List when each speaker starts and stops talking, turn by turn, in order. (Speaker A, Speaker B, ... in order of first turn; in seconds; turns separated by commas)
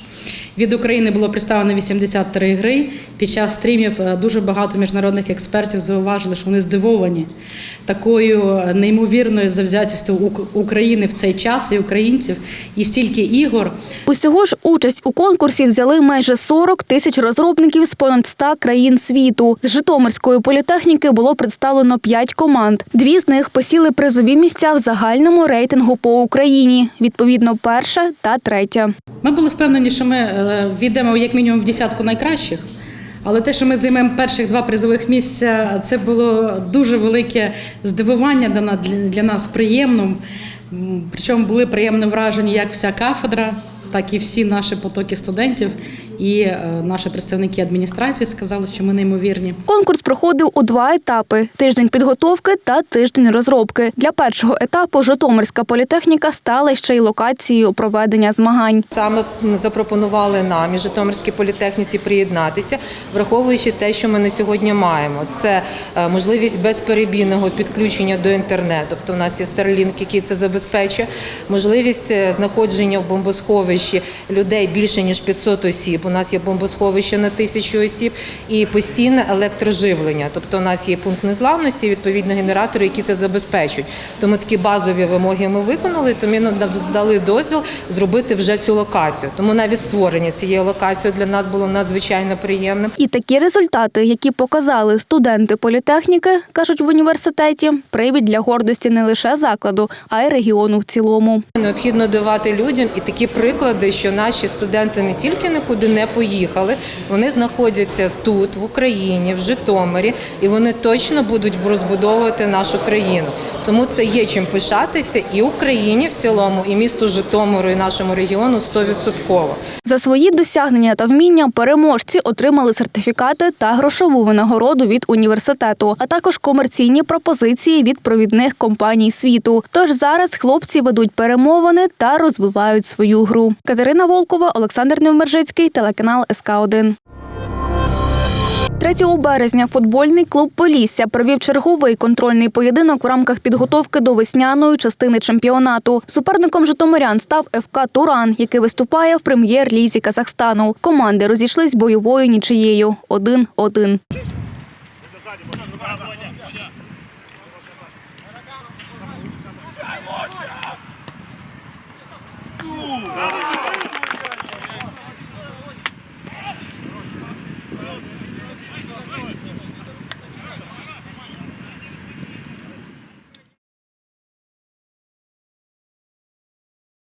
Speaker A: 0.5-7.3, Speaker A: 7.8-13.7, Speaker B: 14.1-28.9, Speaker A: 29.2-32.6, Speaker A: 33.2-49.6, Speaker B: 49.7-58.9, Speaker C: 58.9-92.9, Speaker B: 93.0-101.4, Speaker C: 101.5-119.6, Speaker B: 119.8-136.9, Speaker B: 138.8-154.0